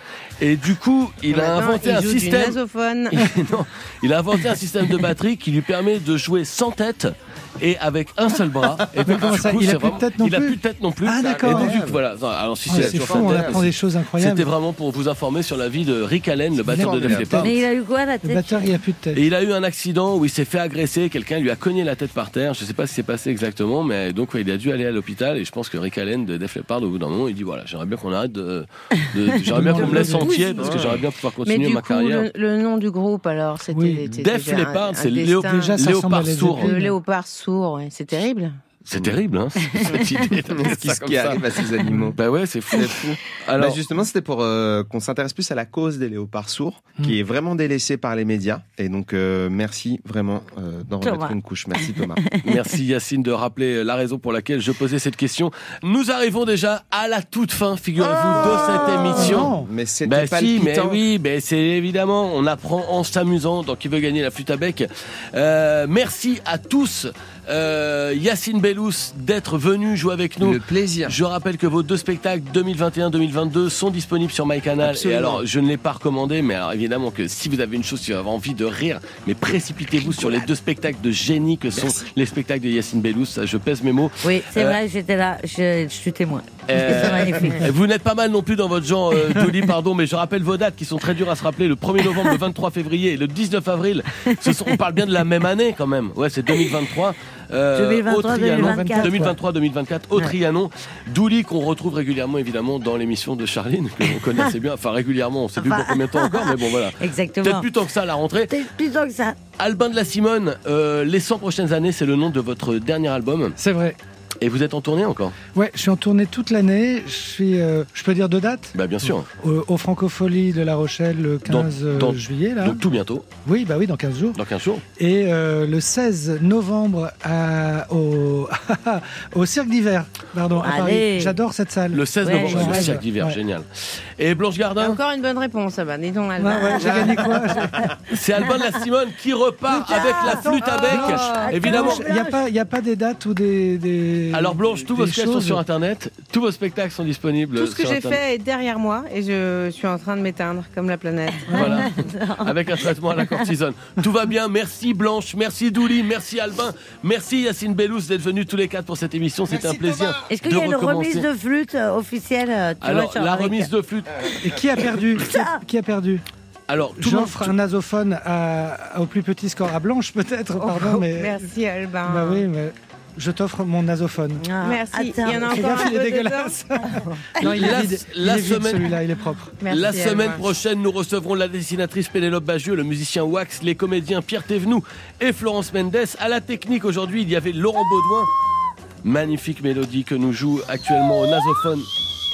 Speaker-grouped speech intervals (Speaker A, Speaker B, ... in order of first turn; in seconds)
Speaker A: 0.4-2.6, 3.1-17.5, 19.1-32.3, 34.1-36.7, 38.9-41.6, 42.2-43.8, 52.4-59.5, 60.1-84.8, 86.7-108.5, 109.6-113.6, 114.4-115.4, 118.8-119.3, 121.5-123.3, 124.4-124.8, 131.9-133.7, 134.2-135.0, 138.1-142.0, 144.3-148.2, 151.6-161.3, 162.8-164.2, 166.7-167.5, 177.4-179.0, 179.7-188.3, 189.0-191.9
Speaker B: 1.3-3.4, 29.7-36.0, 36.5-38.6, 134.8-137.4, 140.9-141.5, 147.6-151.8, 170.6-172.5, 174.6-177.7, 179.6-180.5
Speaker C: 9.1-11.8, 12.7-14.5, 16.7-17.4, 18.2-19.2, 29.5-30.4, 33.7-34.0, 35.4-37.0, 59.2-59.7, 98.5-99.3, 113.6-114.0, 115.5-122.8, 123.5-124.4, 125.0-133.4, 136.4-137.9, 140.3-145.6, 151.5-151.8, 164.4-166.2, 167.0-171.4, 172.1-174.4, 175.3-179.6
Speaker D: 11.2-12.0, 12.7-13.7, 16.7-17.6, 30.6-31.0, 40.5-42.2, 42.7-52.2, 58.3-61.0, 70.4-71.2, 74.8-75.4, 136.8-137.2
Speaker E: 17.4-18.6, 51.0-52.5, 58.0-59.2, 80.0-80.5, 84.2-87.7, 94.3-94.7, 97.8-99.2, 105.6-107.7, 108.5-109.4, 130.6-131.4, 132.2-133.0, 139.7-142.4, 151.5-152.5, 160.3-163.7, 165.2-165.6, 174.4-175.9